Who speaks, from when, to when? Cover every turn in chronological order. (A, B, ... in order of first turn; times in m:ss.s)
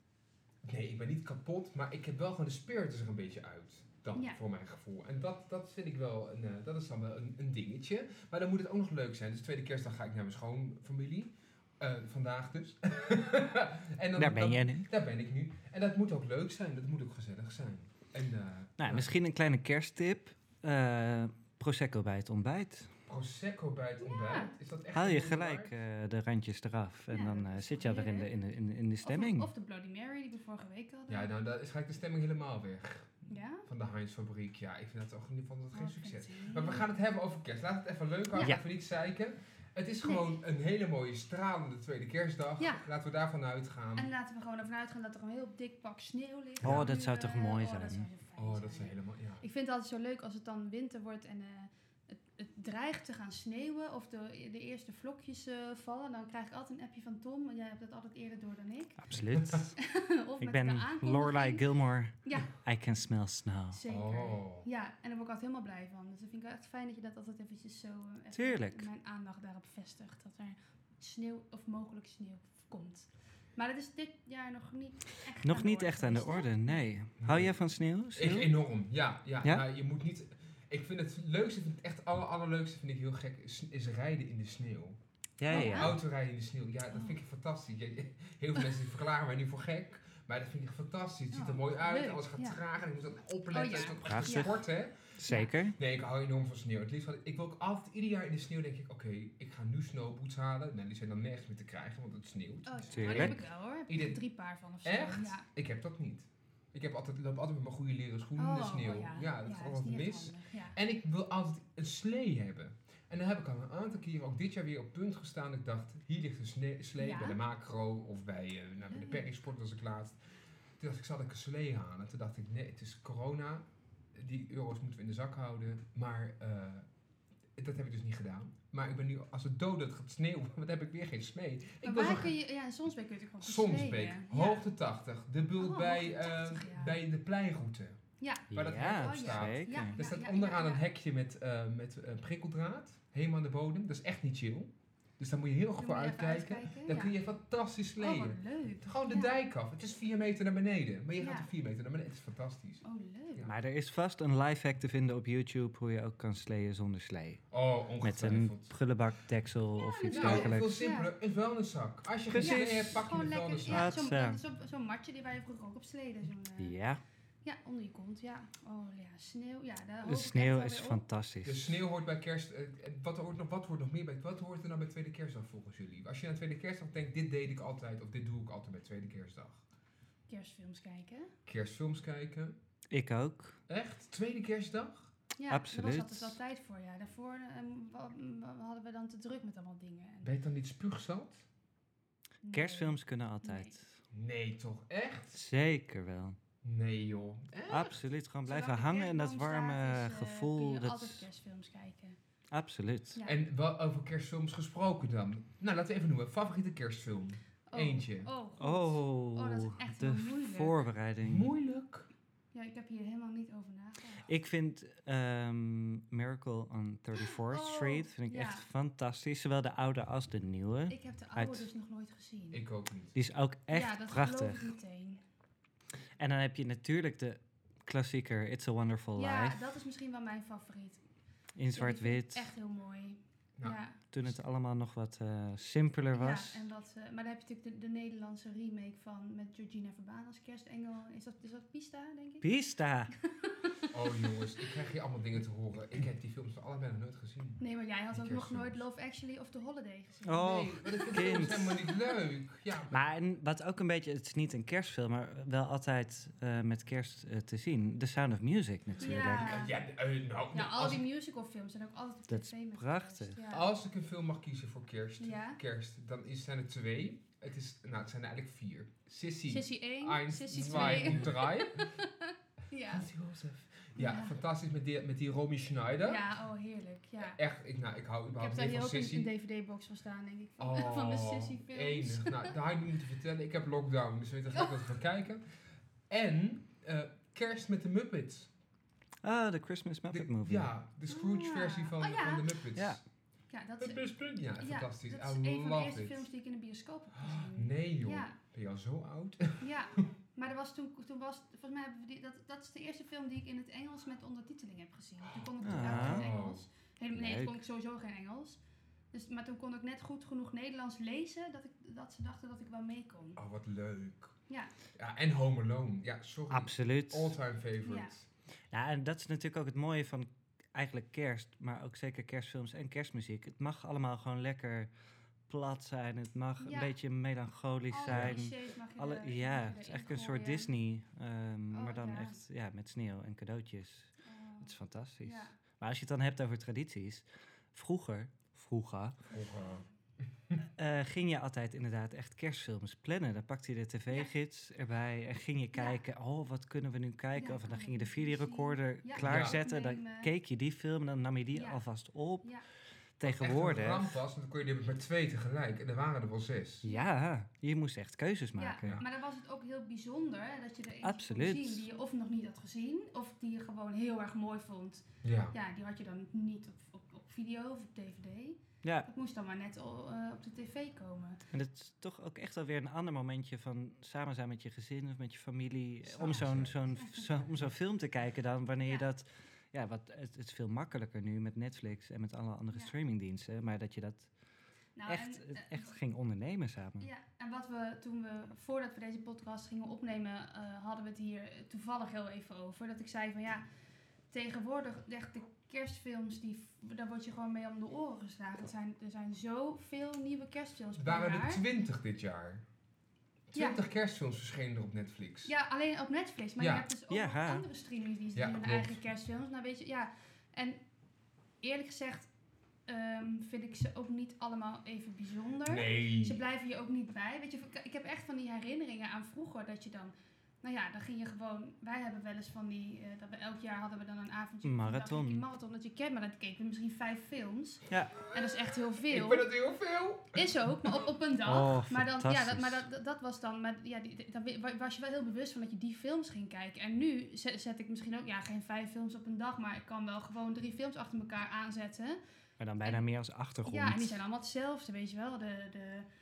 0:00.6-0:19.1 A
0:14.2-0:14.9 B
0:18.8-0:22.9 B
0:23.1-0:25.7 A
0:24.0-0:24.5 C
0:24.9-0:29.5 B
0:27.1-0:28.3 C
0:29.0-0:31.3 C
0:31.1-0:33.2 A
0:33.3-0:33.7 C
0:33.7-0:44.1 A
0:35.7-0:36.9 C
0:38.3-0:38.6 C
0:44.0-0:59.0 C
0:46.6-0:46.9 A
0:46.6-0:48.1 B
0:48.4-0:49.4 A
0:59.0-0:59.8 B
0:59.4-0:59.6 A
0:59.8-1:01.7 C
1:00.4-1:03.8 B
1:02.2-1:02.5 C
1:03.7-1:16.8 C
1:03.9-1:04.7 A
1:08.3-1:08.9 B
1:15.4-1:18.5 B
1:17.2-1:17.5 A
1:18.2-1:25.0 A
1:25.4-1:26.0 B
1:25.5-1:26.0 C
1:25.5-1:35.1 A
1:31.3-1:32.6 C
1:33.5-1:34.6 C
1:34.0-1:34.6 B
1:35.2-1:35.8 B
1:35.3-1:35.5 C
1:35.8-1:44.2 A
1:42.7-1:45.4 C
1:42.9-1:43.4 B
1:44.8-2:00.2 A
1:48.4-1:50.8 C
1:57.0-1:57.4 C
1:58.9-1:59.2 C
2:00.8-2:06.9 A
2:07.6-2:12.4 A
2:11.8-2:14.7 C
2:13.4-2:18.0 A
2:15.6-2:17.0 C
2:18.2-2:20.9 C
2:18.5-2:32.8 A
2:18.5-2:20.0 B
2:25.8-2:27.2 C
2:28.0-2:29.3 C
2:31.2-2:31.5 C
2:32.8-2:33.5 C
2:33.4-2:37.4 B
2:37.5-2:38.7 A
2:38.0-2:40.7 B
2:39.8-2:41.1 C
2:40.1-2:44.0 A
2:42.3-2:44.4 B
2:42.4-2:46.8 C
2:46.6-2:47.0 B
2:47.4-2:51.0 C
2:50.0-2:51.8 B
2:51.4-2:59.6 A
3:00.3-3:01.3 C
3:01.5-3:02.6 A
3:02.9-3:03.6 B
3:03.7-3:05.1 A
3:05.4-3:10.3 C
3:05.5-3:06.4 B
3:10.2-3:11.4 A
3:12.4-3:13.7 C
3:12.5-3:14.0 B
3:14.1-3:15.4 A
3:15.3-3:16.4 B
3:16.6-3:18.0 A
3:17.7-3:21.3 B
3:18.5-3:22.2 C
3:22.5-3:23.2 B
3:23.2-3:28.3 A
3:27.7-3:30.8 C
3:28.6-3:31.5 B
3:31.2-3:32.1 A
3:32.5-3:34.2 C
3:34.3-3:41.7 B
3:37.2-3:38.7 C
3:40.9-3:42.6 C
3:42.5-3:43.1 A
3:43.2-3:44.7 B
3:43.7-3:45.2 C
3:46.2-3:49.6 B
3:49.2-3:51.0 C
3:51.6-3:52.5 B
3:51.7-3:54.0 C
3:53.6-3:54.4 A
3:54.1-3:56.7 B
3:56.2-4:02.5 C
4:02.4-4:03.1 B
4:03.2-4:04.3 C
4:03.9-4:07.6 A
4:07.6-4:12.0 C
4:08.1-4:08.8 A
4:10.3-4:11.9 B
4:10.4-4:13.0 A
4:12.9-4:19.6 B
4:19.0-4:21.0 A
4:19.0-4:19.7 C
4:20.5-4:23.7 C
4:22.3-4:23.4 B
4:23.5-4:31.9 A
4:25.2-4:25.6 C
4:29.5-4:33.1 C
4:30.8-4:31.1 B
4:32.9-4:36.2 A
4:34.0-4:34.3 C
4:36.1-4:37.4 C
4:37.2-4:39.3 A
4:38.4-4:42.6 C
4:40.6-4:45.4 A
4:46.1-4:48.5 A
4:49.2-4:50.7 B
4:50.1-4:53.0 A
4:51.1-4:52.6 C
4:52.8-4:53.0 B
4:53.5-4:54.1 C
4:53.8-4:56.2 A
4:54.6-4:58.4 C
4:57.2-4:59.6 A
4:59.6-5:08.6 C
5:05.3-5:06.6 A
5:05.6-5:06.2 B
5:07.2-5:07.6 B
5:09.1-5:13.4 C
5:13.4-5:14.3 A
5:15.0-5:18.3 A
5:16.5-5:17.4 B
5:17.8-5:18.1 C
5:18.7-5:24.9 B
5:25.5-5:39.2 B
5:26.6-5:26.9 C
5:27.9-5:30.7 C
5:28.1-5:28.4 A
5:31.7-5:32.4 C
5:34.2-5:35.6 C
5:39.3-5:40.6 A
5:39.3-5:39.7 C
5:40.8-5:52.5 B
5:45.8-5:46.0 C
5:47.4-5:50.3 C
5:49.2-5:49.6 A
5:51.6-5:51.8 C
5:53.2-5:54.1 B
5:53.2-5:56.8 A
5:56.8-5:59.0 B
5:58.6-6:11.4 C
6:01.0-6:01.8 B
6:05.2-6:05.6 A
6:08.8-6:09.1 B
6:11.5-6:24.3 B
6:16.1-6:16.8 A
6:25.0-6:26.0 C
6:25.1-6:27.1 B
6:27.0-6:33.7 C
6:34.3-6:41.6 C
6:41.0-6:42.6 A
6:43.5-6:45.5 A
6:45.5-6:50.8 C
6:46.6-6:46.9 A
6:47.1-6:47.7 B
6:48.4-6:49.0 A
6:51.6-6:52.3 C
6:52.9-7:09.5 C
6:55.6-6:56.4 A
7:04.6-7:05.4 B
7:07.9-7:08.2 B
7:09.1-7:11.1 A
7:10.3-7:22.2 C
7:11.4-7:12.8 B
7:22.6-7:24.2 B
7:23.7-7:26.1 C